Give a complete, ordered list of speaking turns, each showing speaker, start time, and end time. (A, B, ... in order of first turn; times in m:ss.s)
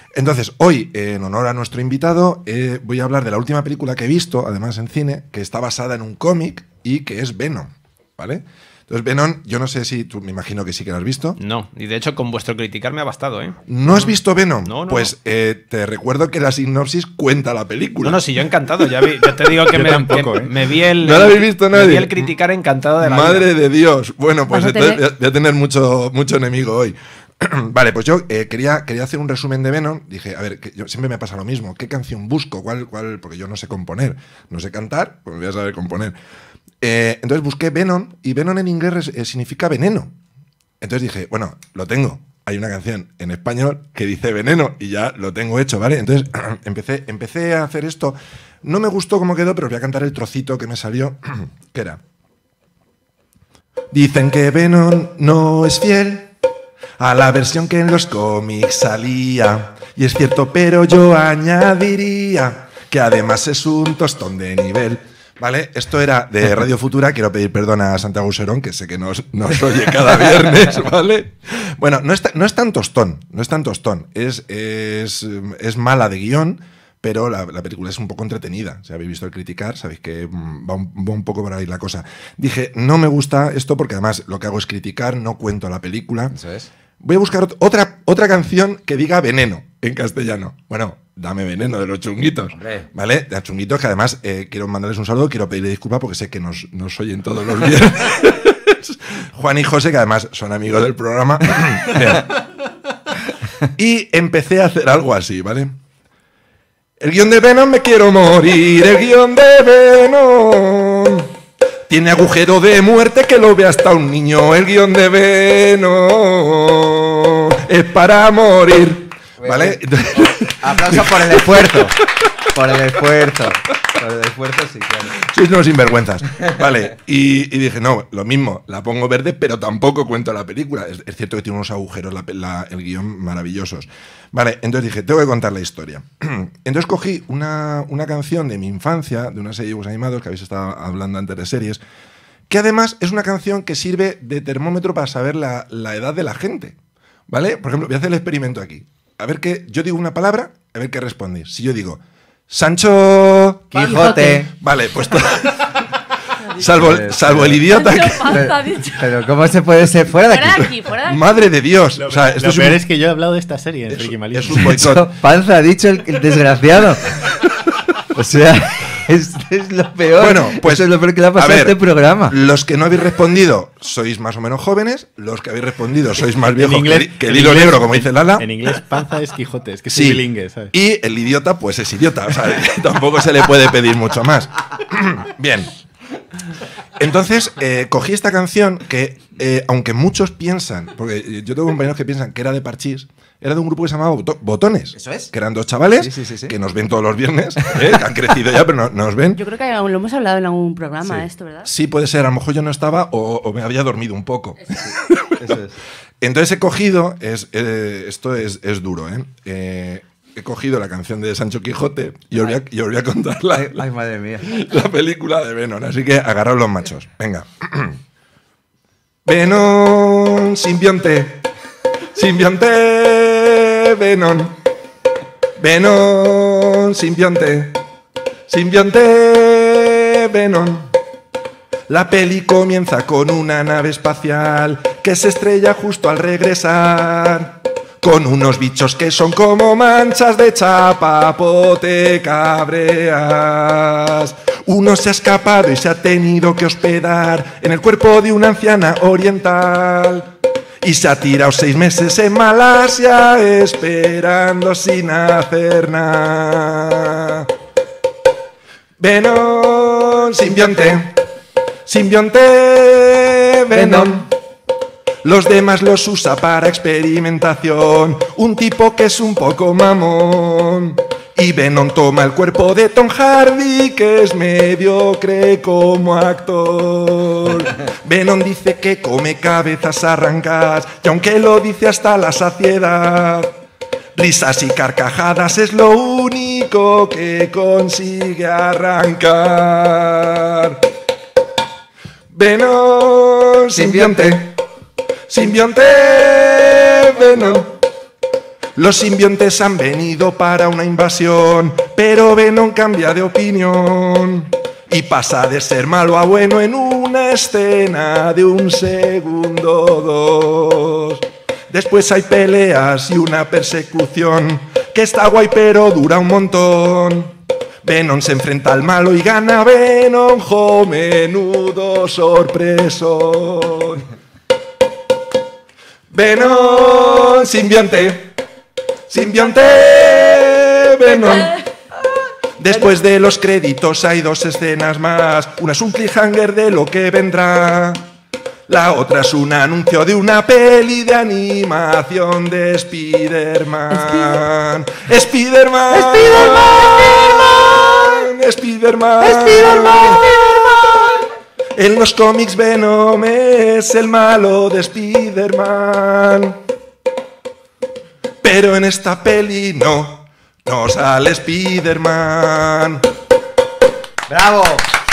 0:00.1-0:11.4 A
0:11.4-0:14.1 B
0:13.6-0:19.1 A
0:14.6-0:15.1 B
0:18.0-0:23.5 B
0:19.7-0:20.5 C
0:21.0-0:22.2 A
0:23.0-0:36.1 A
0:24.5-0:25.0 D
0:36.8-0:40.1 A
0:40.8-0:52.0 A
0:53.9-0:56.3 A
0:57.0-1:26.3 A
1:26.3-1:26.7 E
1:27.0-1:42.2 A
1:32.6-1:32.9 E
1:43.7-1:45.7 A
1:47.0-1:51.3 A
1:51.9-2:01.8 A
1:59.4-2:01.9 E
2:02.5-2:05.2 E
2:05.2-2:21.8 A
2:22.5-2:26.8 A
2:27.3-2:33.8 A
2:33.7-2:34.5 E
2:33.8-2:34.4 D
2:34.4-2:35.7 A
2:36.6-2:38.4 A
2:36.7-2:40.7 E
2:37.7-2:39.1 D
2:40.2-2:41.2 D
2:40.6-2:42.8 A
2:42.0-2:44.8 C
2:43.9-2:45.1 A
2:44.5-2:47.0 E
2:48.1-2:52.4 E
2:50.2-2:51.8 A
2:52.3-2:58.5 A
2:56.6-3:00.7 C
2:59.9-3:05.7 A
3:07.0-3:19.4 A
3:15.0-3:15.3 E
3:16.0-3:16.5 E
3:19.4-3:21.7 D
3:21.0-3:25.5 A
3:25.4-3:25.7 E
3:26.2-3:33.8 A
3:33.5-3:34.5 E
3:34.4-3:38.0 A
3:39.2-3:41.5 A
3:42.1-3:44.5 A
3:45.6-3:47.8 A
3:48.5-3:50.9 A
3:51.9-4:10.3 A
4:10.8-4:17.5 A
4:19.0-4:21.2 A
4:21.8-4:24.3 A
4:23.7-4:24.2 E
4:25.2-4:43.5 A
4:44.1-4:50.8 A
4:52.3-4:54.6 A
4:53.7-4:54.3 E
4:55.3-4:57.7 A
4:58.8-5:24.0 A
5:26.1-5:28.3 A
5:29.1-5:31.6 A
5:32.6-5:38.0 A
5:38.7-5:50.3 A
5:43.9-5:44.4 D
5:45.9-5:47.2 E
5:49.2-5:50.8 E
5:51.7-5:56.6 A
5:58.4-6:03.0 A
6:04.3-6:04.8 E